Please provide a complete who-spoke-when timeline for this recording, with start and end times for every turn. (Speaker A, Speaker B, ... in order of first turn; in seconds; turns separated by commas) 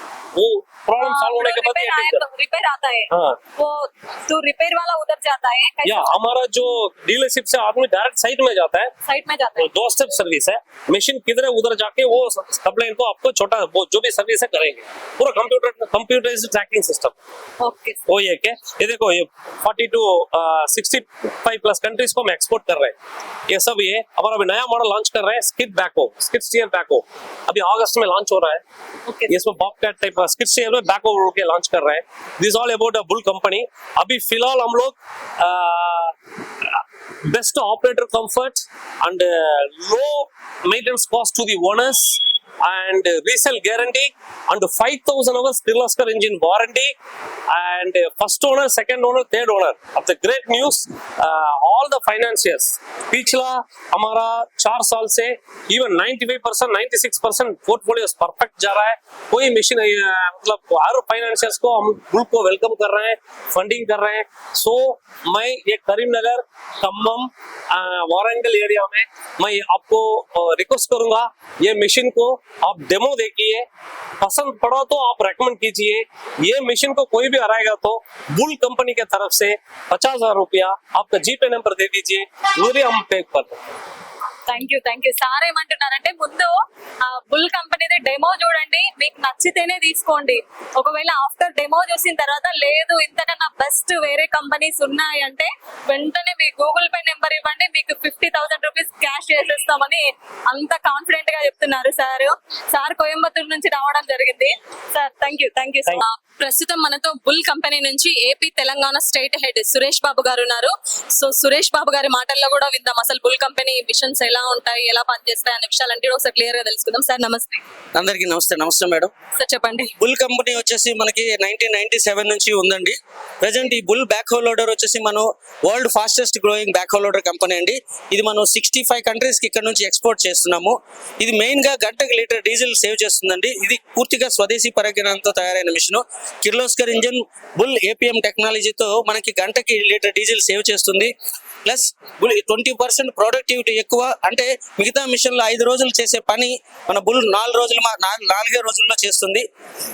Speaker A: 0.3-2.2, Speaker B: 1.0-6.1, Speaker A: 3.1-3.4, Speaker A: 5.8-8.9, Speaker B: 9.1-9.7, Speaker A: 9.6-17.1, Speaker B: 17.6-18.0, Speaker A: 18.1-22.9, Speaker A: 23.5-28.6, Speaker A: 29.3-36.1, Speaker A: 36.6-46.9, Speaker A: 47.5-73.6, Speaker A: 74.2-83.6, Speaker B: 84.5-117.6, Speaker C: 117.9-119.1, Speaker B: 119.4-119.9, Speaker C: 120.0-141.1, Speaker C: 141.6-149.4